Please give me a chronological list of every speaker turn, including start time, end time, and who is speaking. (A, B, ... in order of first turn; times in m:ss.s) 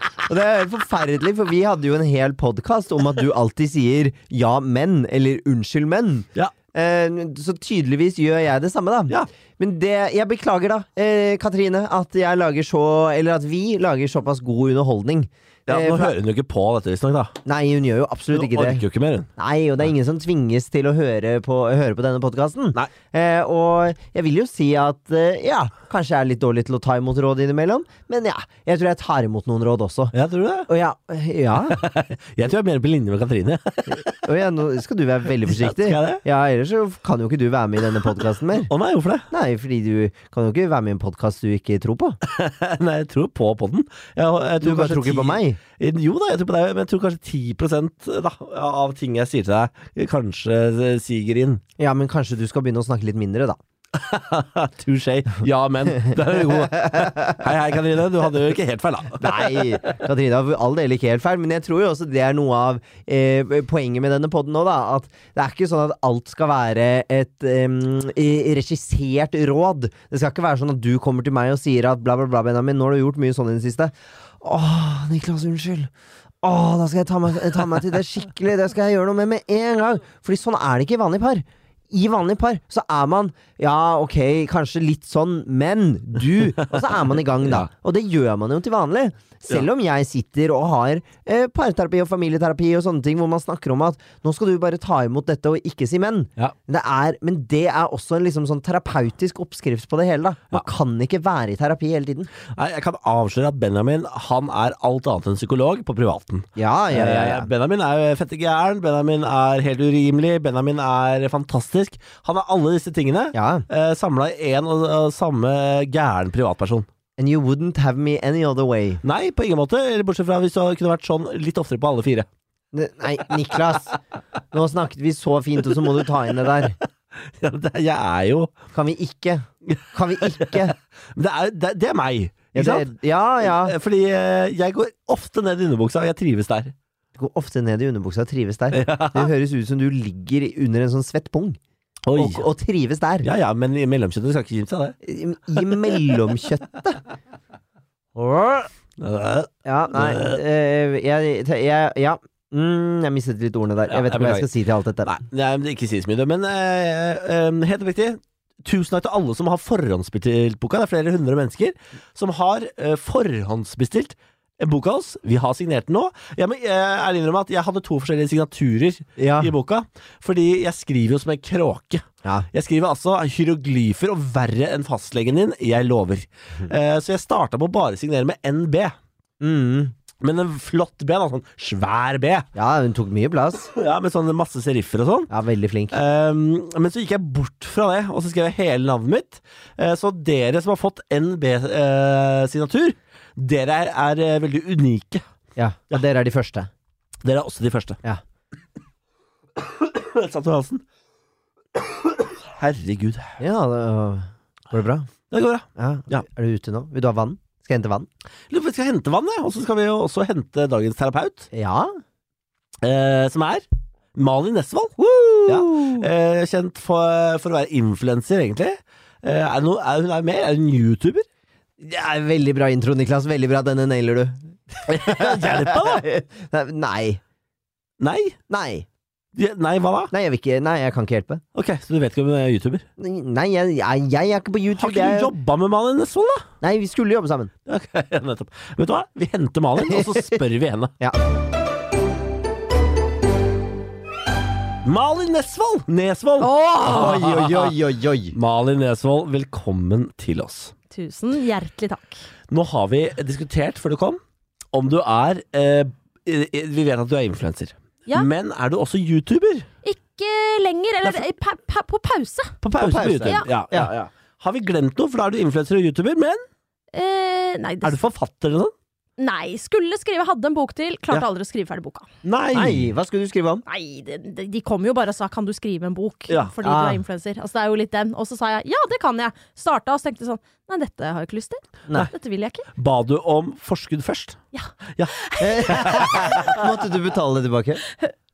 0:00.2-0:16.1 A
0:15.7-0:17.4 B
0:17.4-0:18.8 A
0:18.3-0:19.3 B
0:19.4-0:30.1 A
0:30.1-0:30.7 B
0:30.7-0:31.8 A
0:31.7-0:34.1 B
0:33.9-0:38.7 A
0:35.4-0:36.2 B
0:38.7-0:39.2 B
0:39.3-0:42.2 A
0:42.2-0:51.6 B
0:44.6-0:45.6 A
0:51.8-0:53.6 A
0:53.9-0:59.8 B
0:55.9-0:57.4 A
0:59.2-1:15.9 A
1:16.4-1:42.3 A
1:27.4-1:27.7 B
1:42.5-1:56.9 B
1:46.6-1:47.5 A
1:53.3-1:53.7 A
1:57.2-1:59.0 A
1:59.0-2:02.3 B
2:02.7-2:03.9 A
2:04.5-2:06.8 A
2:07.2-2:08.6 B
2:08.7-2:10.8 A
2:09.7-2:12.9 B
2:12.5-2:13.8 A
2:13.4-2:16.7 B
2:17.2-2:21.6 A
2:18.7-2:19.3 B
2:22.1-2:22.5 B
2:22.1-2:23.3 A
2:23.2-2:25.0 B
2:25.0-2:27.0 A
2:28.2-2:28.7 A
2:29.0-2:30.4 B
2:29.7-2:35.1 A
2:33.9-2:34.5 B
2:35.0-2:59.0 B
2:49.2-2:49.5 A
2:59.4-2:59.9 A
3:00.2-3:02.5 B
3:02.6-3:03.7 A
3:03.7-3:05.3 B
3:05.3-3:06.0 A
3:05.9-3:15.2 B
3:15.6-3:16.7 A
3:17.2-3:18.0 B
3:19.6-3:20.8 B
3:21.8-3:23.4 B
3:23.4-3:25.1 A
3:25.3-3:26.2 B
3:25.8-3:28.1 A
3:28.5-3:31.5 B
3:31.5-3:31.9 A
3:32.8-3:33.6 B
3:34.2-3:41.3 B
3:35.0-3:36.1 A
3:41.8-3:47.2 A
3:44.9-3:46.1 B
3:48.0-3:48.4 B
3:48.5-3:48.8 A
3:49.3-3:50.1 B
3:50.1-3:51.4 A
3:51.6-3:52.8 B
3:53.0-3:55.3 A
3:54.8-3:56.4 B
3:56.6-3:57.5 A
3:57.7-4:00.9 B
3:59.8-4:00.4 A
4:04.8-4:07.8 B
4:06.4-4:08.3 A
4:08.3-4:10.7 B
4:10.9-4:12.2 C
4:12.5-4:14.2 B
4:14.7-4:19.7 B
4:19.8-4:22.6 C
4:22.6-4:26.4 B
4:22.8-4:23.9 A
4:23.2-4:23.5 C
4:26.9-4:28.0 C
4:27.8-4:28.7 B
4:29.2-4:32.1 C
4:32.2-4:32.9 B
4:32.5-4:33.6 A
4:33.7-4:42.7 C
4:36.3-4:36.6 B
4:36.6-4:37.0 A
4:42.8-4:44.4 B
4:44.5-4:46.6 C
4:44.9-4:46.6 B
4:45.4-4:47.8 A